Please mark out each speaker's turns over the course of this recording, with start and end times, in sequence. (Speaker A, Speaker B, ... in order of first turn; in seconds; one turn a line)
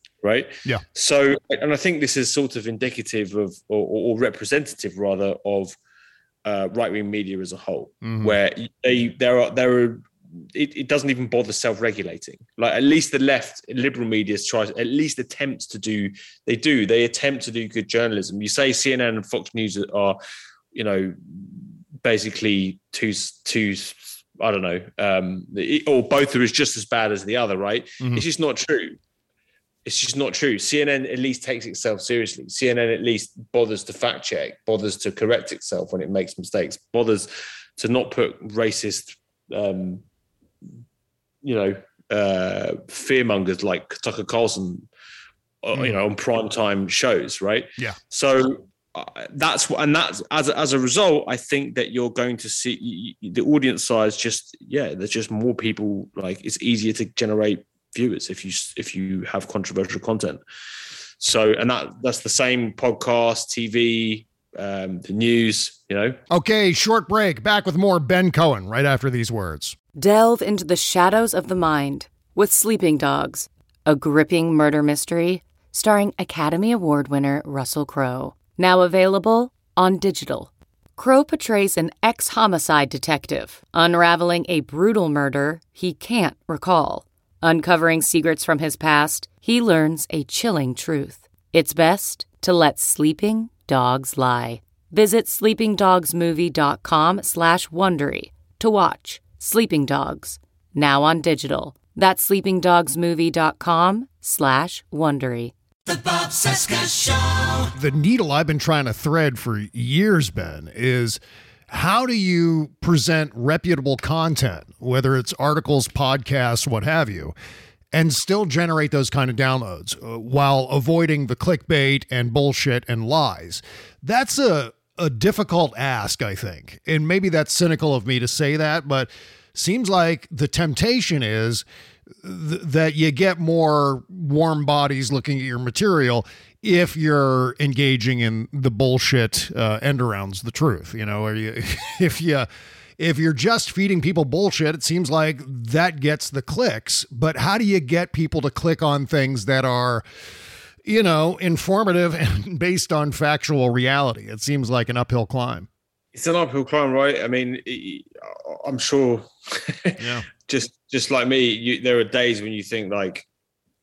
Speaker A: 0.2-5.7
Speaker A: 6.4-20.2
Speaker B: 8.0-8.3
Speaker A: 20.7-29.0
Speaker A: 29.8-40.0
Speaker A: 41.4-44.9
Speaker A: 45.6-60.4
Speaker A: 61.2-66.2
Speaker B: 66.3-69.8
Speaker C: 69.9-107.6
Speaker B: 107.7-117.3
Speaker B: 117.9-131.6
Speaker B: 132.2-142.5
Speaker B: 143.0-150.0
Speaker B: 150.8-155.7
Speaker A: 156.1-163.2
Speaker B: 160.0-160.2